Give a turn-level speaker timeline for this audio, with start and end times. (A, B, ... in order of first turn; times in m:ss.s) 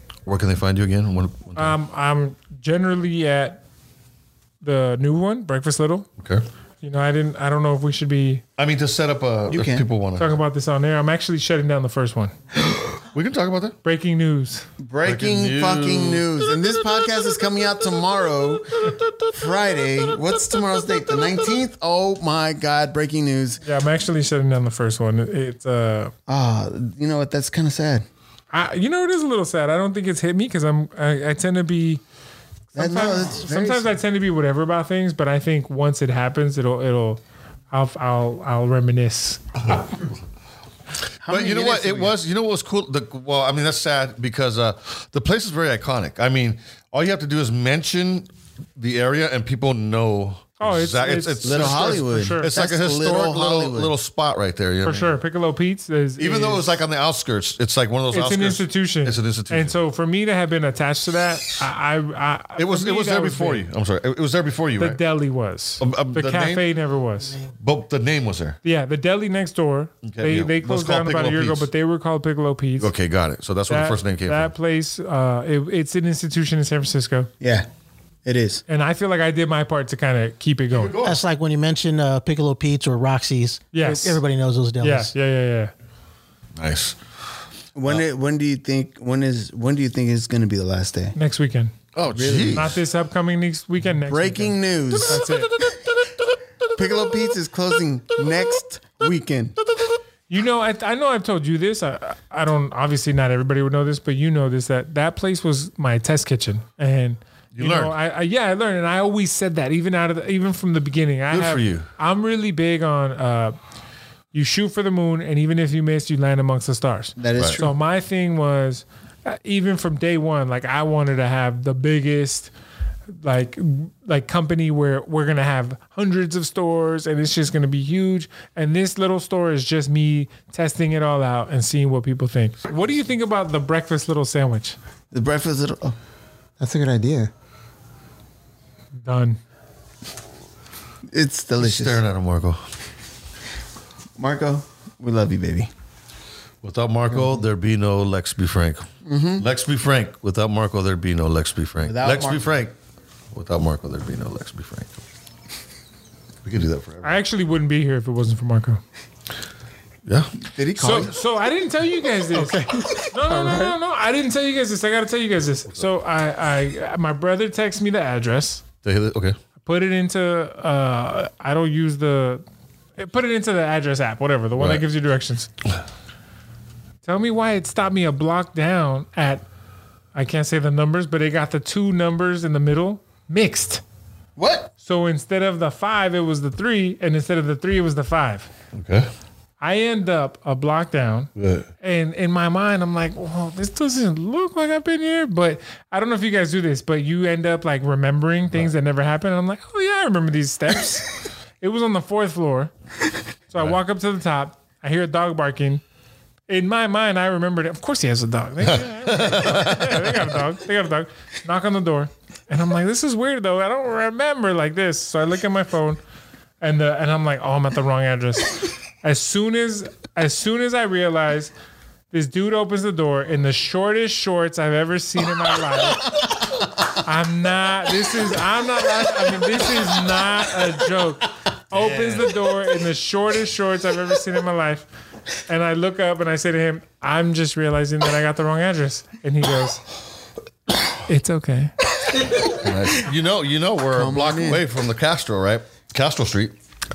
0:00.2-0:01.7 A
0:01.6-0:03.6 B
0:04.6-0:06.1 B
0:06.8-0:08.4 B
0:08.6-0:10.3 A
0:09.5-0:09.8 C
0:10.2-0:12.3 B
0:12.7-0:13.8 A
0:13.8-0:14.6 B
0:14.8-0:23.6 C
0:15.0-0:16.4 A
0:18.8-0:19.3 A
0:23.6-0:26.1 B
0:26.3-0:28.0 C
0:28.5-0:32.0 B
0:32.7-0:37.2 B
0:32.7-0:33.9 C
0:37.7-0:39.8 B
0:41.2-0:42.2 C
0:41.3-0:55.1 A
0:50.6-0:52.5 B
0:51.4-0:53.9 C
0:54.8-0:56.6 B
0:56.2-0:59.7 A
0:58.1-1:03.6 B
1:02.6-1:05.0 A
1:04.8-1:07.4 B
1:05.8-1:06.6 A
1:07.6-1:08.6 A
1:08.6-1:12.9 B
1:10.0-1:11.7 A
1:12.8-1:14.5 A
1:13.7-1:17.3 B
1:17.4-1:17.7 C
1:18.2-1:18.6 C
1:18.7-1:21.0 B
1:20.7-1:21.2 A
1:21.0-1:25.1 D
1:23.7-1:24.2 B
1:24.8-1:25.7 B
1:26.6-1:27.0 A
1:27.7-1:31.2 C
1:31.2-1:31.7 B
1:31.9-1:32.8 A
1:32.1-1:32.8 C
1:32.5-1:35.5 B
1:34.0-1:35.2 C
1:35.1-1:35.8 A
1:36.8-1:39.6 C
1:40.3-1:53.6 B
1:47.5-1:47.9 A
1:51.3-1:51.9 A
1:54.3-2:02.5 B
1:57.2-1:57.7 C
2:03.1-2:14.8 B
2:15.1-2:16.0 C
2:16.6-2:17.3 E
2:19.0-2:19.4 B
2:21.1-2:22.0 C
2:21.6-2:22.6 A
2:24.2-2:25.7 C
2:26.6-2:32.7 A
2:27.1-2:27.4 C
2:29.0-2:29.5 C
2:31.8-2:32.5 C
2:33.3-2:35.0 A
2:36.4-2:37.2 A
2:37.0-2:38.8 B
2:40.0-2:40.4 A
2:40.5-2:41.1 C
2:40.8-2:48.6 B
2:42.5-2:43.7 E
2:48.8-2:49.4 A
2:49.6-2:52.4 B
2:53.0-2:55.5 B
2:54.6-2:54.8 A
2:57.0-2:59.4 B
3:00.1-3:03.8 B
3:04.4-3:04.7 C
3:04.8-3:08.5 B
3:08.7-3:09.1 A
3:09.6-3:22.7 B
3:11.4-3:11.6 A
3:23.5-3:25.8 B
3:26.5-3:36.0 B
3:28.7-3:30.2 A
3:36.6-3:41.5 B
3:42.1-3:46.2 B
3:46.9-3:54.9 B
3:51.7-3:52.3 A
3:55.4-3:59.8 B
4:01.0-4:01.7 B
4:02.4-4:06.5 A
4:03.9-4:04.6 C